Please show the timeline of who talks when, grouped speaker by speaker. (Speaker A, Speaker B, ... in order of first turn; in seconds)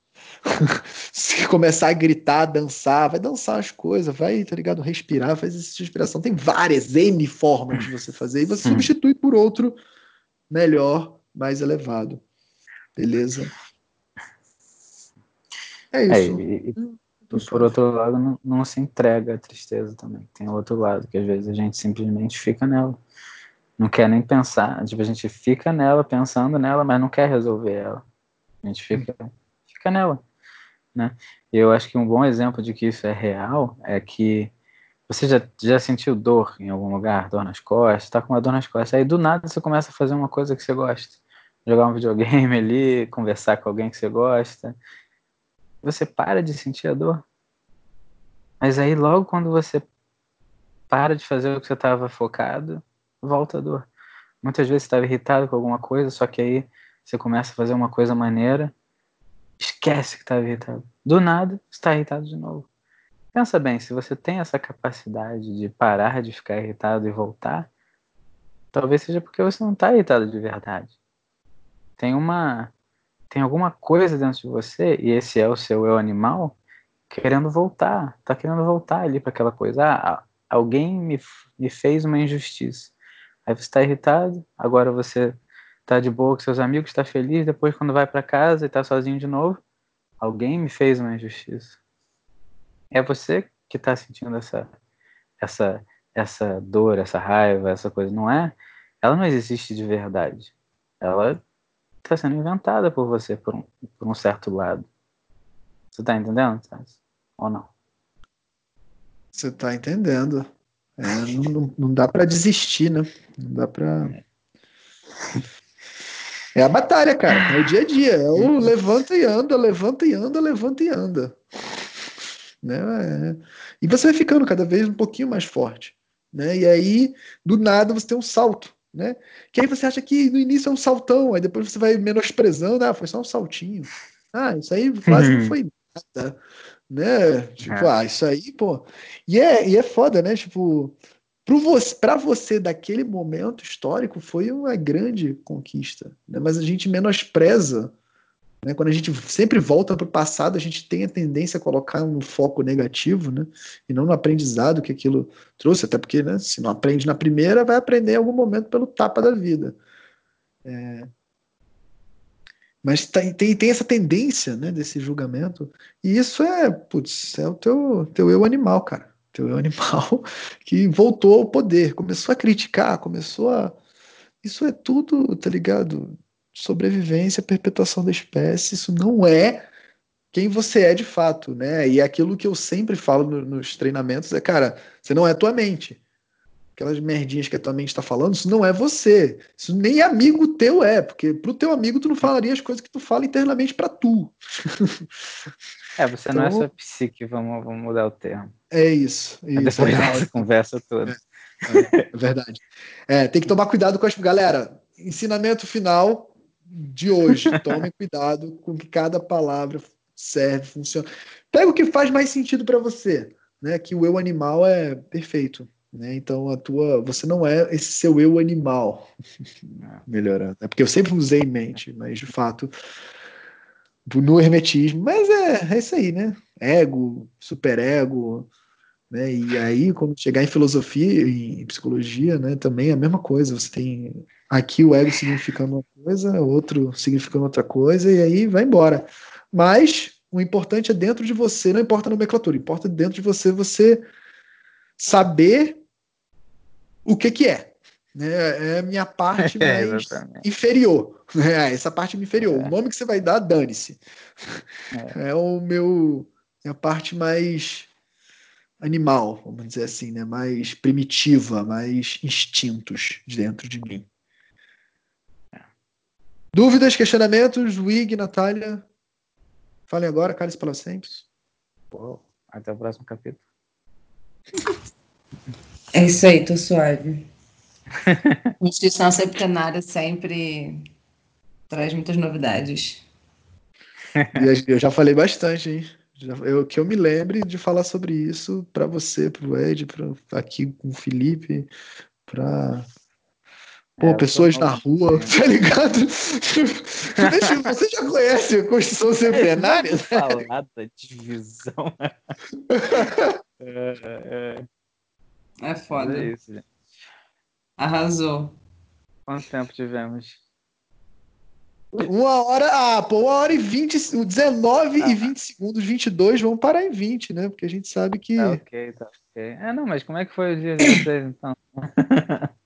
Speaker A: 0.5-9.8, 10.5-12.2, 12.9-13.5, 15.9-17.7, 109.3-114.2, 116.5-121.4, 122.6-147.9, 148.6-159.8, 160.7-161.1, 162.8-173.8, 174.4-179.7, 180.3-186.0, 186.8-195.0, 196.3-196.7, 198.7-200.4, 201.1-219.1, 220.1-222.7, 224.1-228.5, 229.1-244.1, 245.0-245.8, 247.1-254.6, 255.1-257.9, 258.8-264.1, 266.5-268.9, 269.9-271.2, 284.3-291.7, 292.3-292.9, 294.0-300.4, 302.7-303.4, 311.9-318.6
Speaker B: 16.1-16.8, 17.3-23.0, 23.8-28.0, 28.6-30.2, 30.9-34.5, 35.1-44.8, 45.8-47.2, 48.6-49.9, 50.9-53.9, 54.4-58.7, 59.6-62.7, 63.3-67.7, 68.7-70.9, 72.0-72.7, 73.3-76.6, 77.1-82.9, 83.5-89.6, 90.2-91.8, 92.9-94.7, 95.4-101.4, 102.0-104.8, 105.9-107.7, 118.3-118.7, 135.1-135.6, 137.7-137.9, 195.9-198.5, 199.6-201.2, 249.4-250.4, 252.4-252.7, 271.9-273.4, 278.1-278.4, 284.1-284.4, 294.0-295.4, 299.3-302.3, 303.6-304.7, 305.9-306.7, 309.3-310.4, 315.0-315.3, 318.4-322.5
Speaker C: 275.9-277.3, 278.6-280.9, 281.7-283.0, 305.6-306.3, 307.8-308.6